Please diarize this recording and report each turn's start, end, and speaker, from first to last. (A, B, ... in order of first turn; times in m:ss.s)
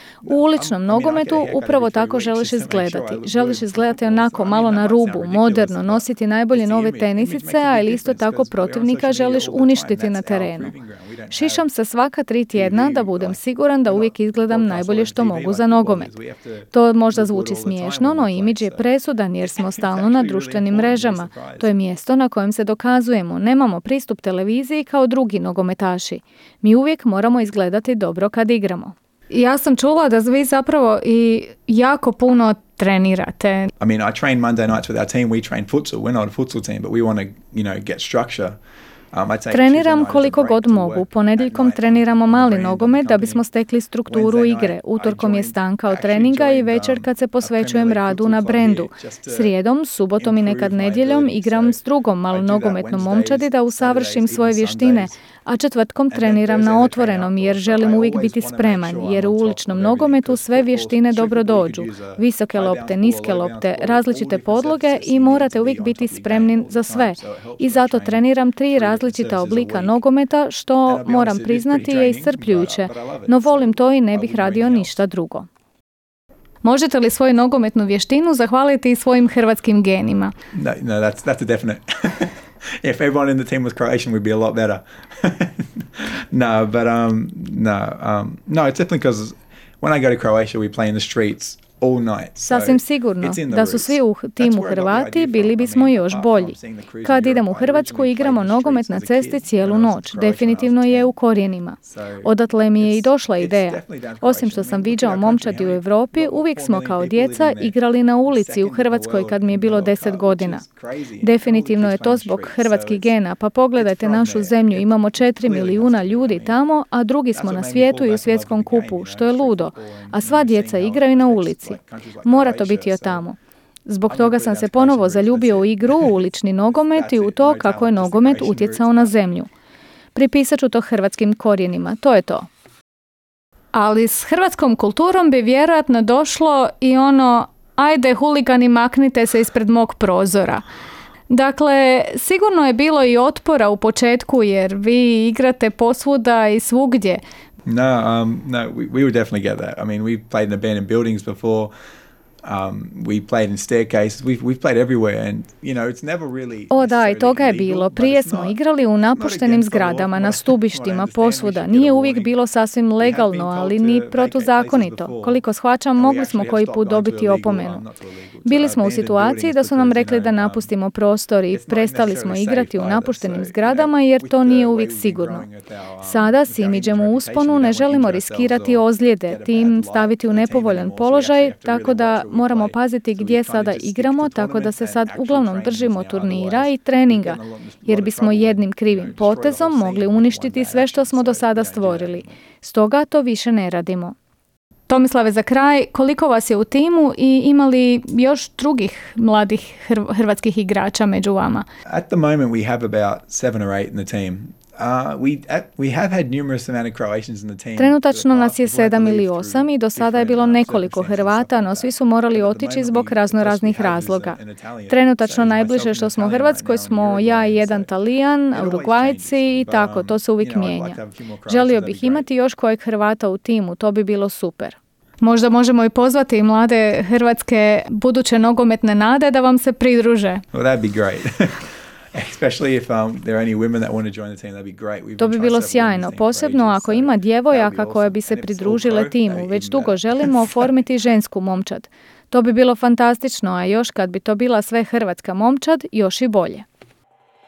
0:00.2-0:11.7 A
0:00.2-0:10.7 B
0:11.3-0:16.1 B
0:12.5-0:18.9 A
0:16.7-0:33.7 B
0:19.4-0:21.8 A
0:33.8-0:38.6 A
0:39.1-0:43.4 A
0:39.5-1:15.5 B
0:44.1-0:49.5 A
0:50.2-0:55.2 A
0:56.1-1:10.0 A
1:10.8-1:15.0 A
1:16.6-1:20.3 B
1:20.5-1:41.1 A
1:32.4-1:50.6 B
1:41.8-1:53.1 A
1:51.2-2:09.5 B
1:53.7-1:56.6 A
1:57.3-2:03.2 A
2:04.1-2:06.1 A
2:06.7-2:09.1 A
2:10.1-2:12.5 B
2:13.7-2:20.6 B
2:21.3-2:27.2 B
2:27.6-2:31.7 A
2:32.4-2:38.6 A
2:36.7-2:47.8 B
2:39.1-2:42.3 A
2:43.0-2:45.4 A
2:46.0-2:50.7 A
2:48.4-2:55.5 B
2:51.5-3:12.3 A
2:56.0-3:14.1 B
3:14.9-3:21.6 B
3:21.8-3:37.9 A
3:27.8-3:34.4 B
3:34.9-3:50.4 B
3:38.5-3:42.3 A
3:50.5-4:00.7 A
3:55.2-4:06.6 B